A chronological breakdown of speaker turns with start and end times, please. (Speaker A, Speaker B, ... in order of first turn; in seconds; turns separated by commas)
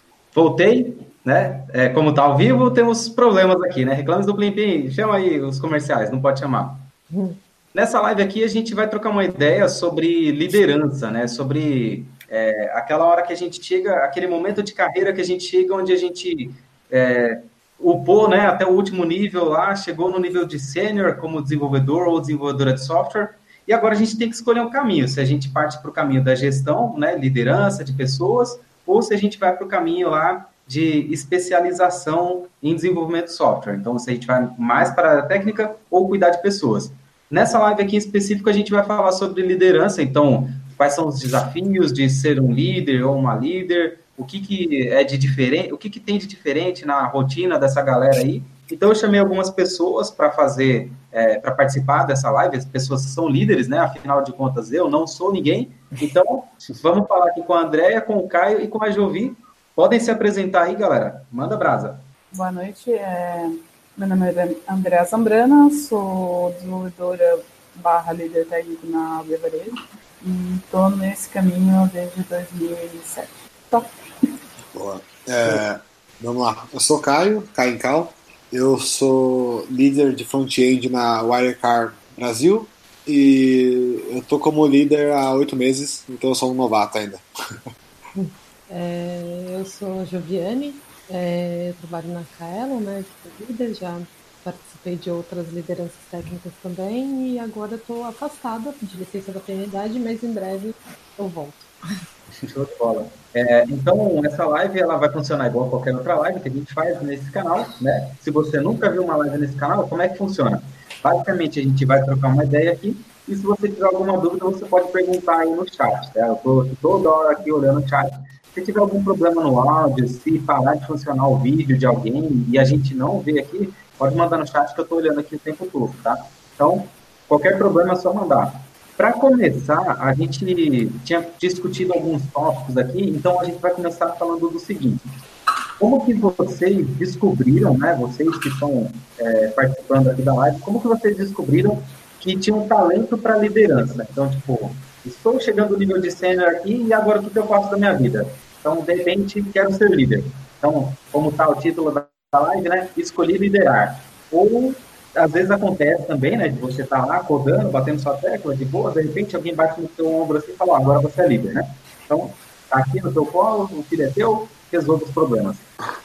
Speaker A: 0.3-6.8, Speaker B: 7.1-7.4, Speaker A: 7.7-62.0, Speaker C: 62.3-74.3, Speaker D: 74.7-87.2, Speaker B: 88.1-101.7, Speaker A: 102.5-135.0, Speaker A: 135.8-165.7